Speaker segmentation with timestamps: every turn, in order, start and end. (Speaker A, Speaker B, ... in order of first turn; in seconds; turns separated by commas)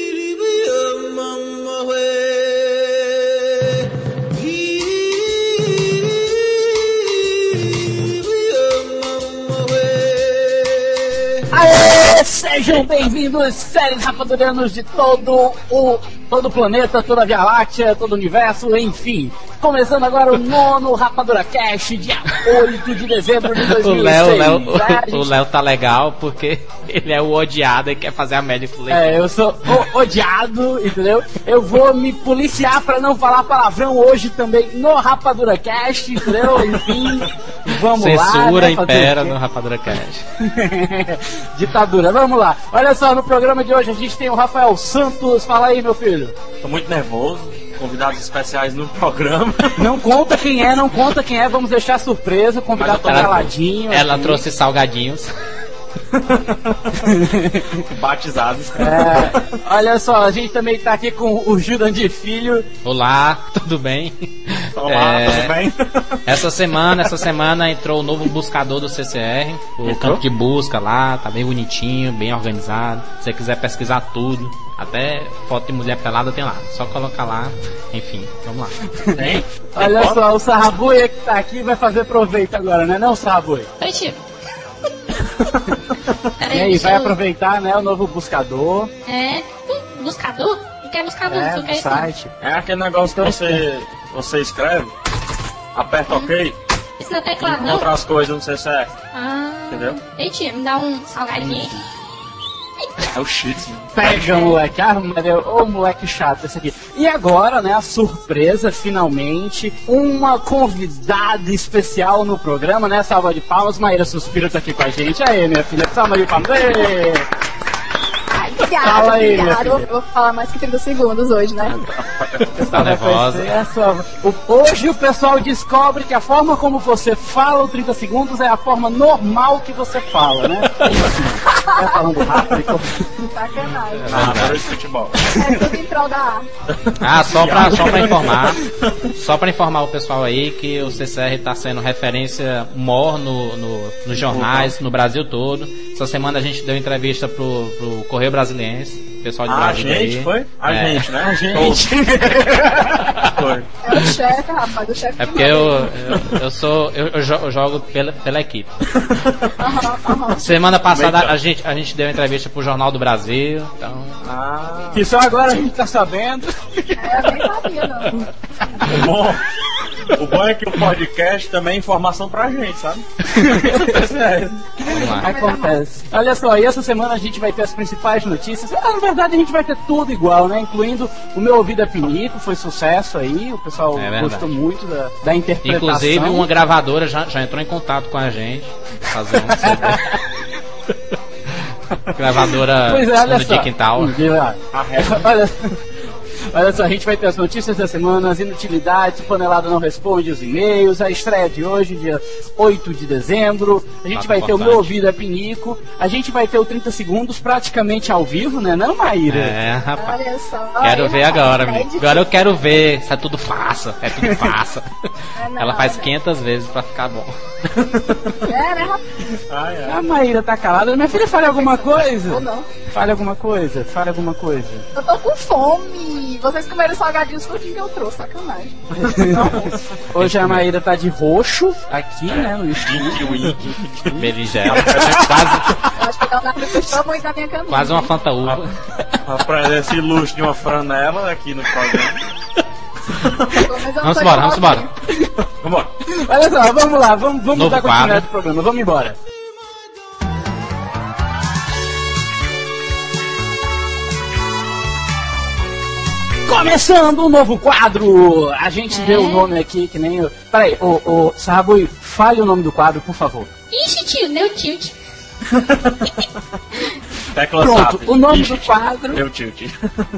Speaker A: 11.5-25.3, Speaker B: 23.6-29.2, Speaker A: 28.9-39.4, Speaker C: 36.7-37.3, Speaker B: 37.8-40.2, Speaker A: 40.4-46.4, Speaker C: 46.6-49.9, Speaker A: 49.8-54.4, Speaker C: 52.8-53.5, Speaker B: 53.1-55.4, Speaker C: 56.1-57.0, Speaker A: 56.9-57.8, Speaker C: 57.8-59.6, Speaker A: 58.8-62.7, Speaker B: 62.8-65.6, Speaker C: 64.8-66.3, Speaker B: 66.3-78.7, Speaker C: 69.8-70.2, Speaker A: 78.9-83.7, Speaker C: 79.1-80.2, Speaker D: 83.8-84.2, Speaker C: 85.5-86.2, Speaker D: 86.4-87.2, Speaker A: 86.5-88.9, Speaker D: 89.1-92.1, Speaker A: 91.3-92.3, Speaker C: 92.4-94.9, Speaker A: 93.2-93.6, Speaker C: 95.7-96.6, Speaker D: 97.0-97.9, Speaker C: 97.4-98.9, Speaker D: 99.1-101.8, Speaker C: 99.7-100.0, Speaker C: 103.0-104.4, Speaker A: 104.0-117.3, Speaker E: 118.3-121.8, Speaker A: 118.8-119.9, Speaker C: 121.7-122.6, Speaker A: 122.5-133.1, Speaker B: 122.6-123.5, Speaker E: 131.5-132.0, Speaker E: 133.3-134.6, Speaker B: 133.9-134.7, Speaker C: 134.1-135.3, Speaker A: 135.2-135.7, Speaker E: 135.2-136.5, Speaker C: 136.7-139.1, Speaker B: 137.0-151.1, Speaker C: 144.2-144.7, Speaker C: 149.5-152.5, Speaker A: 151.2-153.2, Speaker C: 153.2-153.7, Speaker E: 153.8-155.9, Speaker B: 155.2-158.7, Speaker C: 158.9-159.5, Speaker E: 159.6-160.6, Speaker B: 160.4-164.2, Speaker C: 160.9-161.3, Speaker C: 164.2-165.1, Speaker A: 164.9-167.5, Speaker E: 166.9-168.2, Speaker C: 168.8-169.5, Speaker C: 170.0-174.7, Speaker A: 173.2-174.0, Speaker A: 174.8-186.5, Speaker B: 174.9-175.4, Speaker E: 174.9-175.8, Speaker B: 183.9-184.6, Speaker B: 185.6-190.1, Speaker A: 189.5-190.2, Speaker B: 191.5-194.2, Speaker A: 192.8-195.8, Speaker C: 194.7-195.3, Speaker A: 196.5-209.6, Speaker B: 204.1-204.9, Speaker B: 209.3-210.2, Speaker E: 210.0-212.3, Speaker B: 210.8-217.3, Speaker A: 214.2-214.5, Speaker E: 215.3-216.1, Speaker C: 217.7-218.5, Speaker E: 218.4-219.2, Speaker C: 219.5-220.0, Speaker A: 219.8-224.8, Speaker E: 221.2-222.7, Speaker E: 224.9-228.8, Speaker C: 229.0-230.0, Speaker A: 229.0-233.6, Speaker B: 230.2-230.7, Speaker C: 232.3-235.9, Speaker B: 234.1-235.8, Speaker A: 234.7-235.8, Speaker E: 236.0-238.1, Speaker B: 237.7-238.7, Speaker C: 239.2-242.2, Speaker C: 243.1-243.7, Speaker E: 243.5-245.3, Speaker B: 244.0-244.9, Speaker C: 245.5-245.9, Speaker A: 246.1-249.2, Speaker B: 247.5-248.3, Speaker A: 256.5-263.5, Speaker D: 258.9-259.5, Speaker D: 263.7-265.0, Speaker C: 265.4-266.1, Speaker D: 266.7-267.0, Speaker C: 267.3-270.0, Speaker A: 267.6-269.2